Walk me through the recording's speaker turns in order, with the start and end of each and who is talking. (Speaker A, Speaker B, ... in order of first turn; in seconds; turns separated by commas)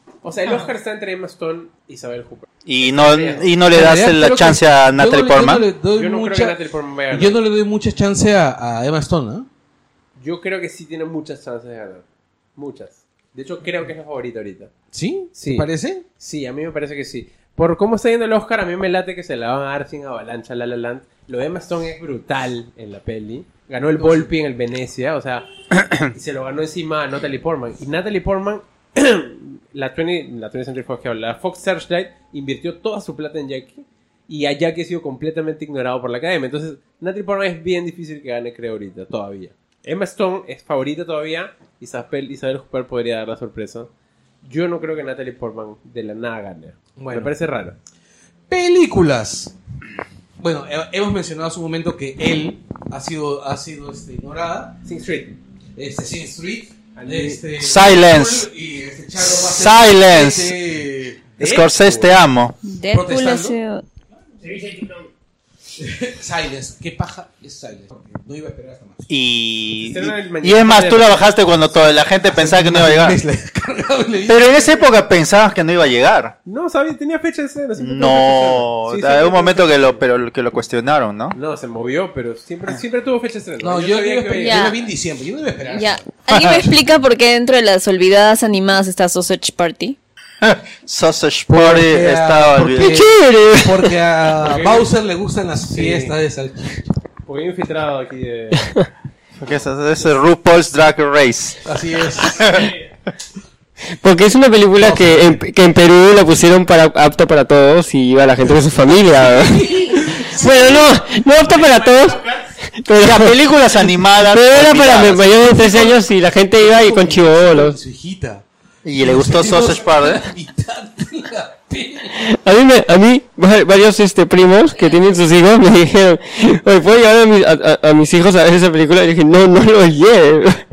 Speaker A: 0.2-3.5, Speaker B: 2.6-5.7, Speaker C: 3.7-6.6, Speaker A: 5.9-7.4, Speaker C: 7.1-9.5, Speaker A: 10.2-14.7, Speaker C: 14.9-16.0, Speaker A: 15.3-15.7, Speaker A: 16.2-25.4, Speaker C: 24.0-24.3, Speaker A: 26.0-43.9, Speaker A: 44.4-47.8, Speaker C: 47.0-47.3, Speaker C: 48.5-49.5, Speaker C: 50.4-54.8, Speaker A: 54.8-55.4, Speaker C: 55.8-61.3, Speaker A: 56.9-57.4, Speaker B: 57.6-58.5, Speaker B: 59.3-60.5, Speaker A: 61.4-62.2, Speaker B: 61.4-62.6, Speaker D: 62.6-63.8, Speaker C: 62.9-63.6, Speaker C: 65.8-69.1, Speaker B: 69.1-73.2, Speaker A: 69.8-71.8, Speaker C: 72.2-75.0, Speaker B: 74.3-76.3, Speaker A: 76.5-80.0, Speaker B: 77.8-81.3, Speaker A: 81.3-84.8, Speaker C: 83.6-86.8, Speaker D: 84.3-84.8, Speaker D: 85.7-90.0, Speaker B: 90.4-93.1, Speaker C: 91.5-96.9, Speaker E: 92.8-94.0, Speaker A: 94.4-94.9, Speaker A: 95.6-96.1, Speaker A: 97.2-98.7, Speaker B: 99.4-101.6, Speaker C: 101.6-102.5, Speaker B: 102.2-102.7, Speaker E: 104.0-117.8, Speaker C: 104.8-105.4, Speaker C: 109.1-110.8, Speaker A: 111.4-112.5, Speaker B: 113.0-115.3, Speaker C: 115.4-118.4, Speaker B: 118.8-120.3, Speaker C: 119.0-122.2, Speaker E: 122.2-130.6